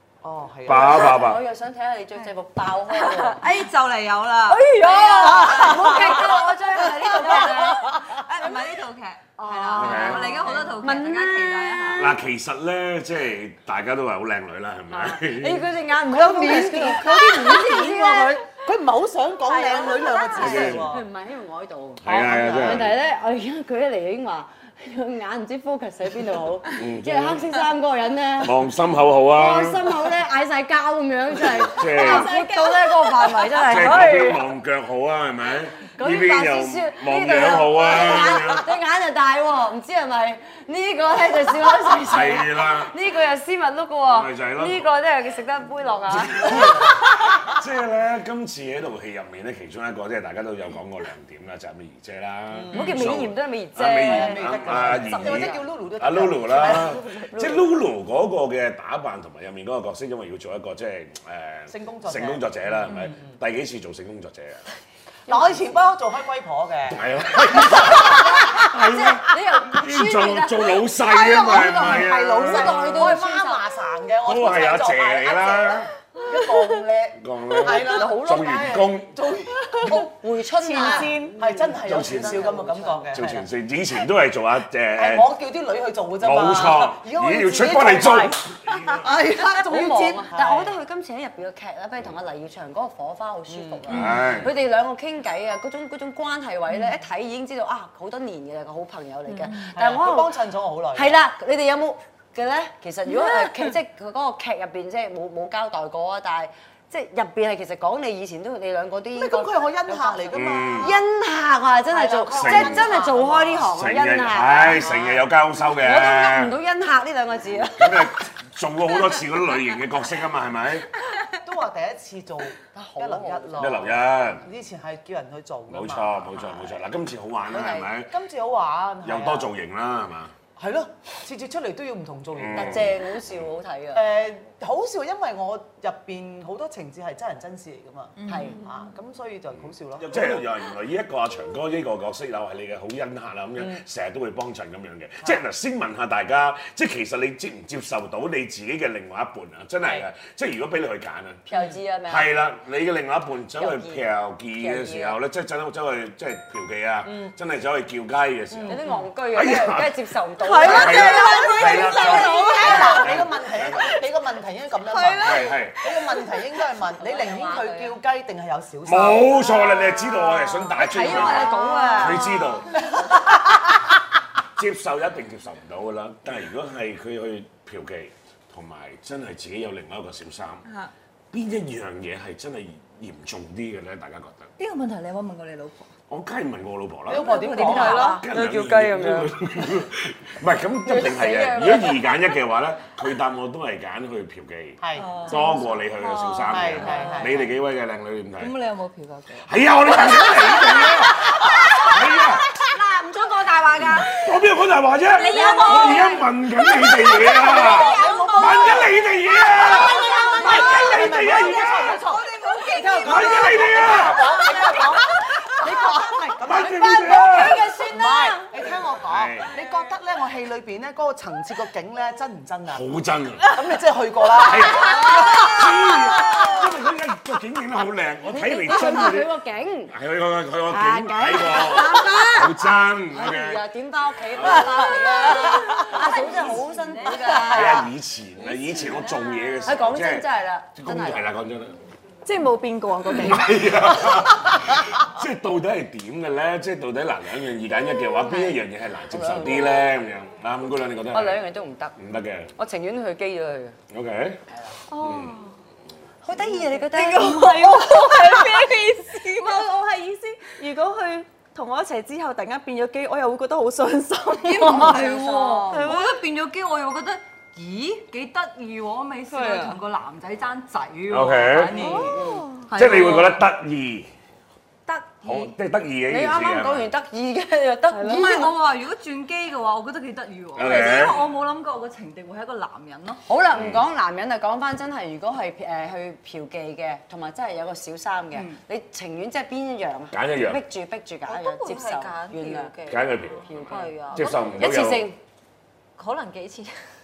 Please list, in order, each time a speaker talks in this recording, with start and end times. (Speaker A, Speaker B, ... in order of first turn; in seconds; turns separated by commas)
Speaker A: 0.2-1.2, Speaker B: 0.6-1.4, Speaker C: 0.7-3.4, Speaker D: 2.9-12.2, Speaker C: 4.5-7.8, Speaker E: 4.7-6.3, Speaker A: 5.2-6.2, Speaker E: 7.1-7.7, Speaker A: 7.2-7.8, Speaker C: 9.4-12.2, Speaker B: 9.7-10.4, Speaker B: 11.9-15.7, Speaker C: 14.9-18.4, Speaker A: 16.1-21.0, Speaker F: 19.8-20.2, Speaker C: 20.3-28.7, Speaker B: 20.3-20.9, Speaker B: 22.0-22.9, Speaker A: 22.1-22.9, Speaker B: 26.7-27.6, Speaker B: 28.4-30.0, Speaker C: 29.3-34.4, Speaker B: 31.4-32.4, Speaker E: 32.1-32.4, Speaker B: 33.6-38.7, Speaker C: 35.8-47.2, Speaker B: 42.0-42.9, Speaker B: 44.1-44.9, Speaker B: 46.2-64.6, Speaker A: 52.5-53.2, Speaker C: 52.7-55.6, Speaker A: 54.0-57.3, Speaker C: 56.5-57.7, Speaker A: 61.7-63.3, Speaker A: 65.3-67.0, Speaker B: 66.9-73.1, Speaker A: 67.7-68.1, Speaker C: 67.7-73.7, Speaker A: 71.0-80.1, Speaker B: 74.2-75.9, Speaker B: 77.2-79.1, Speaker C: 79.8-83.0, Speaker E: 80.6-81.5, Speaker A: 80.7-83.5, Speaker B: 81.8-85.3, Speaker A: 85.0-90.7, Speaker B: 86.2-89.1, Speaker C: 89.6-118.2, Speaker A: 93.5-94.5, Speaker B: 93.9-94.5, Speaker A: 99.5-101.2, Speaker D: 103.1-103.7, Speaker A: 109.1-111.0, Speaker B: 110.3-111.0, Speaker A: 111.9-113.7, Speaker B: 112.3-116.6, Speaker A: 114.8-115.1, Speaker B: 117.8-120.9, Speaker A: 121.4-126.5, Speaker C: 122.7-123.8, Speaker B: 123.6-124.5, Speaker B: 125.7-128.1, Speaker C: 127.5-127.9, Speaker A: 127.6-129.5, Speaker B: 129.0-130.3, Speaker A: 130.6-133.0, Speaker B: 132.3-133.4, Speaker C: 132.5-134.1, Speaker A: 133.9-140.4, Speaker D: 138.2-138.6, Speaker C: 138.3-138.6, Speaker B: 139.6-151.5, Speaker C: 151.5-152.3, Speaker B: 152.1-163.9, Speaker C: 153.6-154.0, Speaker C: 154.5-155.2, Speaker A: 158.5-159.0, Speaker C: 158.7-162.9, Speaker E: 160.4-163.1, Speaker A: 161.3-169.8, Speaker E: 164.8-166.1, Speaker B: 165.2-165.8, Speaker C: 167.0-168.0, Speaker B: 168.8-172.8, Speaker E: 170.0-172.6, Speaker D: 170.8-172.3, Speaker C: 171.0-171.5, Speaker A: 172.9-173.3, Speaker B: 174.6-180.6, Speaker D: 180.6-180.9, Speaker B: 181.3-184.5, Speaker D: 184.6-185.9, Speaker B: 186.1-198.5, Speaker A: 187.1-188.2, Speaker D: 187.1-188.2, Speaker E: 187.4-188.2, Speaker C: 187.6-189.3, Speaker C: 190.8-192.4, Speaker A: 194.8-195.2, Speaker D: 195.0-197.3, Speaker A: 196.5-197.5, Speaker D: 198.4-204.3, Speaker B: 199.4-202.5, Speaker E: 202.6-203.7, Speaker B: 204.0-212.0, Speaker D: 205.2-208.8, Speaker E: 205.2-206.1, Speaker C: 205.3-206.1, Speaker A: 207.1-222.8, Speaker D: 209.6-215.7, Speaker C: 209.7-210.8, Speaker E: 209.8-210.3, Speaker B: 213.0-214.4, Speaker B: 216.4-217.7, Speaker C: 216.9-218.8, Speaker B: 219.0-219.5, Speaker D: 219.5-219.9, Speaker B: 222.7-223.5, Speaker A: 223.5-225.9, Speaker B: 224.4-229.3, Speaker C: 228.2-229.9, Speaker B: 229.9-233.7, Speaker E: 230.7-232.3, Speaker C: 231.4-237.9, Speaker B: 234.3-235.0, Speaker E: 234.8-235.9, Speaker A: 235.5-237.8, Speaker B: 237.2-241.7, Speaker C: 238.5-238.9, Speaker C: 239.6-241.3, Speaker E: 242.2-244.2, Speaker B: 243.1-251.4, Speaker C: 248.2-249.9, Speaker C: 251.1-251.9, Speaker B: 252.0-252.5, Speaker C: 252.6-253.8, Speaker B: 253.9-254.4, Speaker C: 254.5-254.8, Speaker E: 254.9-255.5, Speaker B: 254.9-255.4, Speaker C: 256.2-258.3, Speaker E: 256.9-265.1, Speaker D: 257.4-259.6, Speaker D: 264.4-273.4, Speaker C: 264.6-266.0, Speaker E: 265.7-266.1, Speaker C: 269.4-269.7, Speaker B: 271.1-272.0, Speaker E: 271.8-272.7, Speaker C: 271.8-272.4, Speaker B: 272.7-274.1, Speaker D: 274.9-275.5, Speaker B: 275.2-276.9, Speaker C: 276.1-278.6, Speaker D: 277.9-283.2, Speaker B: 280.6-281.2, Speaker C: 283.3-292.9, Speaker B: 283.5-283.8, Speaker D: 288.3-288.6, Speaker B: 290.1-290.6, Speaker F: 291.2-294.6, Speaker B: 292.9-295.1, Speaker C: 293.5-295.2, Speaker F: 296.0-296.7